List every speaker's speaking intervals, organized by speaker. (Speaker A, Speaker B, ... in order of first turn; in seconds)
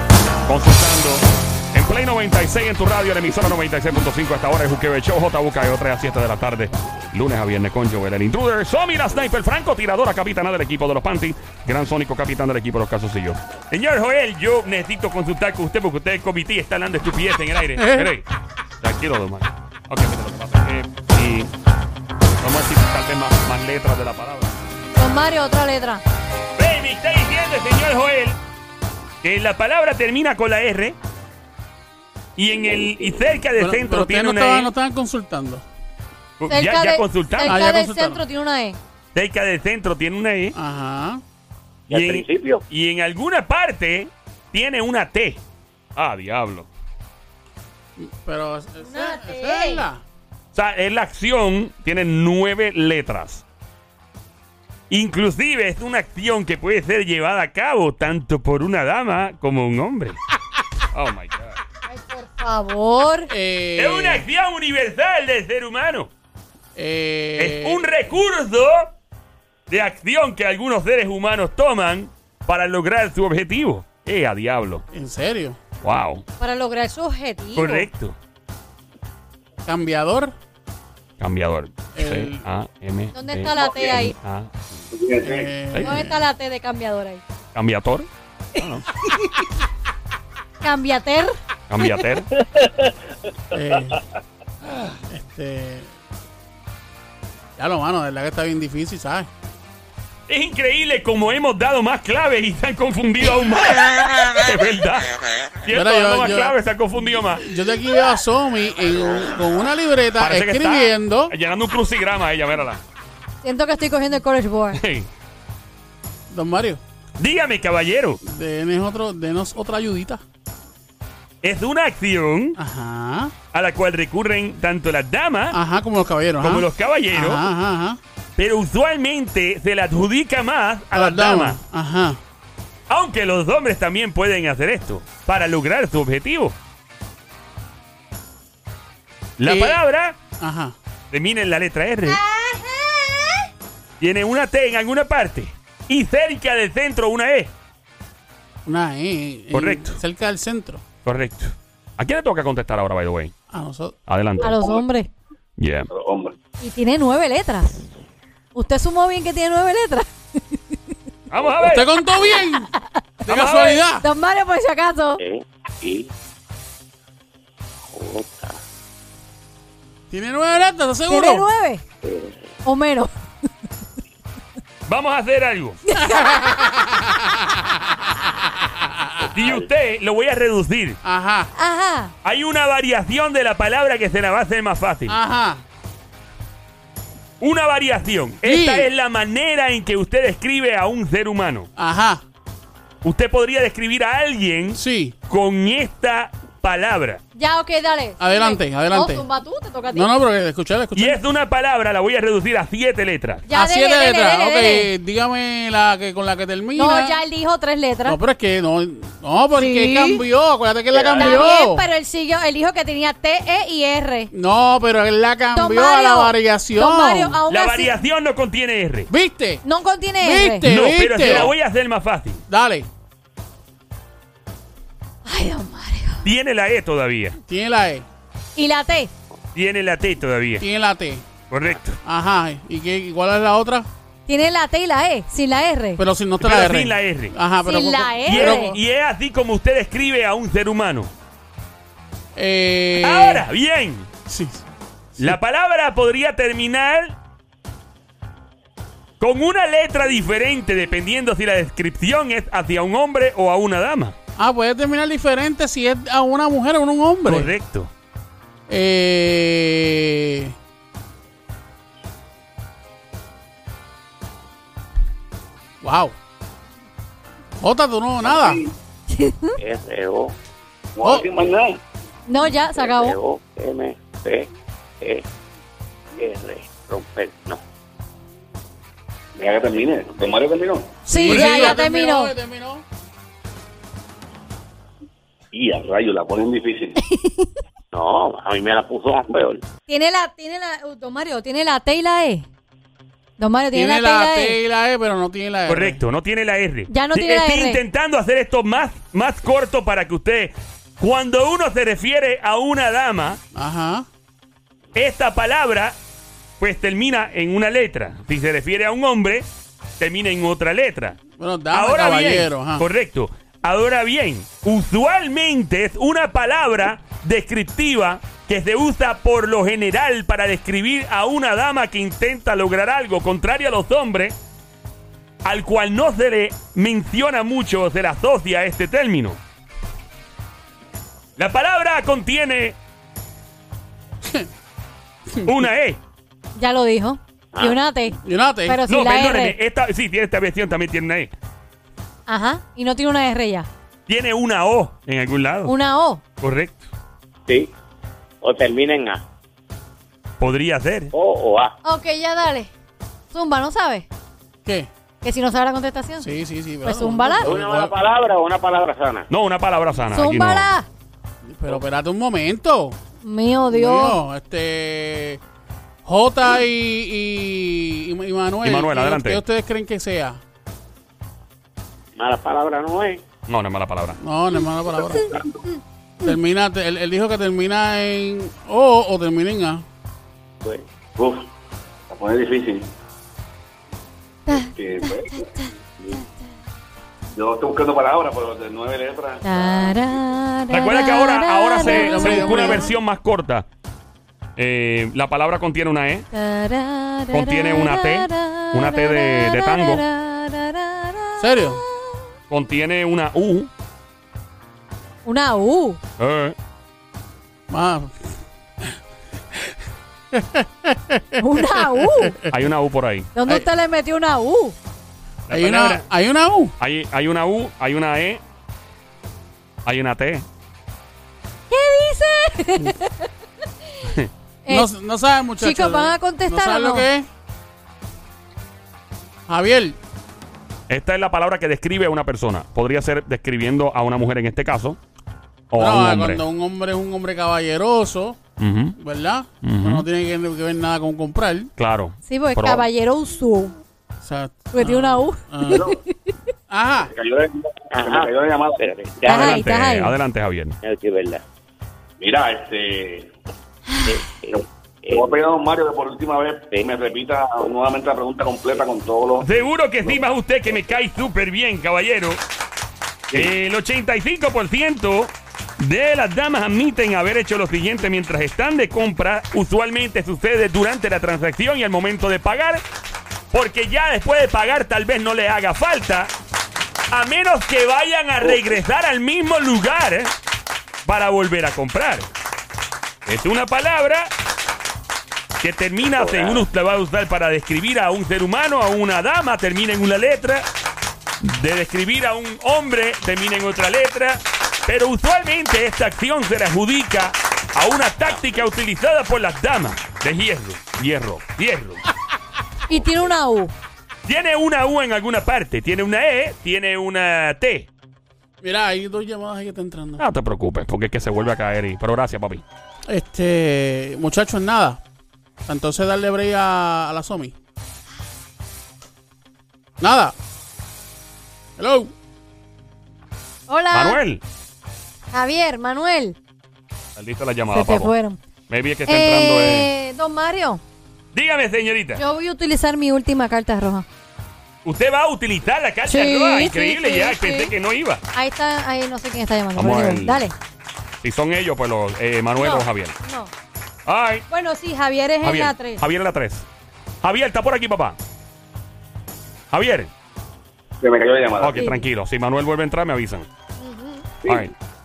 Speaker A: 0.5-18.2, 18.8-21.5, 22.4-24.5, 26.6-28.4, 29.2-30.9, 32.4-34.7, 36.4-37.6, 39.1-40.6, 41.9-45.4, 46.0-46.7, 50.5-53.4, 54.9-60.2, 60.9-61.6, 63.8-66.1, 67.4-68.9, 69.7-74.8, 75.8-76.2, 77.6-78.2, 81.2-84.5, 85.7-86.0, 87.5-88.8, 91.7-92.3, 100.3-107.4, 110.2-112.8, 114.7-115.1, 117.2-118.2, 121.4-122.6, 123.5-125.6, 126.4-127.5, 128.4-131.6, 132.9-136.6, 139.4-140.2, 141.1-142.2, 144.0-147.5, 149.5-150.0, 151.1-153.3, 154.1-154.7, 155.6-155.9, 161.3-161.9, 163.3-163.8, 174.9-175.8, 179.3-181.0, 182.2-185.2, 187.4-191.7, 193.0-197.2, 200.9-203.4, 217.5-219.1, 220.6-222.4, 226.2-227.4, 229.6-230.7, 231.5-232.0, 236.4-237.4, 238.2-241.1, 243.0-244.1, 245.2-247.2, 249.2-254.2, 257.2-257.9, 295.7-303.4, 304.9-305.9, 306.6-309.4, 310.0-324.4, 325.4-329.4, 331.4-332.8, 335.4-336.0, 338.9-341.3, 344.1-345.7, 346.4-346.9, 350.4-351.1, 359.3-360.7, 368.6-369.4, 373.5-374.2, 390.7-393.6, 394.6-396.3, 397.3-400.0, 402.5-403.7, 406.2-406.5, 412.5-413.3, 415.5-416.1, 416.8-418.4, 419.9-420.4, 430.9-435.0, 435.7-436.4, 438.6-439.0, 439.6-440.1, 441.8-442.8, 449.2-450.8, 459.4-462.4, 463.3-472.8, 473.5-476.3, 477.1-480.3, 481.0-482.3, 483.2-484.3, 485.6-490.7, 491.4-502.0, 504.2-507.9, 510.2-512.6, 523.9-524.4, 527.1-528.1, 528.7-529.9, 531.3-532.2, 534.9-538.2, 539.8-540.4, 541.2-543.1, 544.1-544.4, 545.4-546.6, 547.2-548.2, 549.7-550.1, 551.6-553.5, 554.5-554.7
Speaker B: 17.8-18.1, 33.6-35.6, 37.4-38.2, 40.5-41.2, 48.0-50.0, 63.3-64.2, 66.8-67.9, 74.9-75.6, 79.6-80.3, 81.9-82.5, 85.2-86.2, 93.5-94.0, 95.1-95.9, 97.6-99.3, 105.7-106.6, 107.3-111.3, 116.3-116.8, 118.2-120.2, 122.6-123.3, 125.5-128.0, 130.9-132.2, 139.4-139.8, 140.4-140.8, 148.6-150.8, 153.5-154.0, 161.6-162.7, 163.2-164.1, 170.1-171.5, 176.0-179.3, 181.0-181.5, 185.1-185.6, 188.4-188.9, 191.8-192.2, 194.7-195.2, 198.2-199.2, 199.9-201.2, 203.5-207.2, 208.1-211.8, 214.3-217.4, 219.1-219.6, 220.2-221.5, 222.5-222.9, 227.5-228.1, 230.6-231.3, 232.0-233.9, 236.0-238.8, 242.3-243.4, 244.2-244.6, 254.4-257.5, 258.7-260.6, 265.8-266.1, 267.6-268.6, 281.1-282.8, 293.7-296.0, 303.5-304.1, 311.4-312.9, 334.2-334.5, 338.2-338.8, 354.6-354.9, 356.2-357.9, 361.4-363.0, 363.7-365.4, 366.1-370.4, 374.2-375.3, 376.2-379.9, 391.8-392.9, 401.4-401.8, 407.7-408.9, 410.3-412.5, 415.5-416.7, 424.7-427.3, 429.5-430.0, 435.8-438.4, 439.0-441.7, 444.2-445.9, 446.7-447.1, 508.6-510.2, 513.1-515.0, 515.6-517.5, 520.0-520.3, 521.8-522.1
Speaker C: 24.9-26.0, 36.5-38.8, 48.8-49.9, 61.9-63.3, 76.4-77.9, 83.1-84.1, 85.8-87.2, 90.6-91.4, 113.4-114.8, 142.2-143.3, 154.4-155.1, 156.6-157.8, 158.6-160.1, 162.3-163.0, 164.0-165.2, 171.1-171.8, 172.6-173.1, 175.9-176.7, 181.6-182.1, 197.4-200.1, 203.5-204.9, 206.8-208.2, 209.6-210.2, 211.2-214.3, 215.5-217.9, 219.6-220.7, 225.2-226.3, 228.6-229.1, 234.3-236.0, 237.6-238.7, 269.1-269.6, 272.3-273.1, 281.1-282.3, 287.0-287.5, 289.9-292.4, 293.4-294.6, 296.9-297.8, 336.6-339.6, 342.3-343.7, 345.6-346.2, 351.8-352.7, 353.3-354.1, 355.2-356.3, 356.8-357.6, 360.1-360.9, 363.2-364.2, 384.5-386.2, 389.4-392.9, 396.3-402.2, 405.2-406.0, 411.4-412.4, 413.4-414.8, 421.7-423.3, 425.6-427.1, 442.2-443.8, 444.7-446.3, 449.2-450.1, 502.9-503.7, 523.7-524.2, 525.3-526.4, 527.7-528.4, 529.1-530.8, 532.1-534.1, 536.1-537.7, 538.3-540.5, 542.6-543.5, 544.5-546.0, 551.8-552.0, 553.8-554.2
Speaker D: 41.9-42.6, 165.2-166.1, 167.9-168.6, 172.0-172.5, 179.4-179.7, 269.6-270.4, 272.7-275.2, 276.1-277.6, 287.9-289.6, 347.5-347.7, 348.4-349.2, 351.1-351.7, 357.4-359.3, 372.1-373.2, 447.9-449.6, 450.8-451.4, 454.0-455.4, 486.0-486.6
Speaker E: 83.6-83.9, 84.9-85.5, 155.9-156.3, 210.9-211.4, 268.2-268.7, 270.9-271.8, 279.4-281.0, 285.5-287.0, 375.1-375.6, 381.1-381.5, 382.1-382.9, 384.5-385.5, 387.3-390.2, 445.7-446.0, 447.1-448.9, 452.2-453.3, 454.5-460.2, 551.0-551.9, 554.4-554.7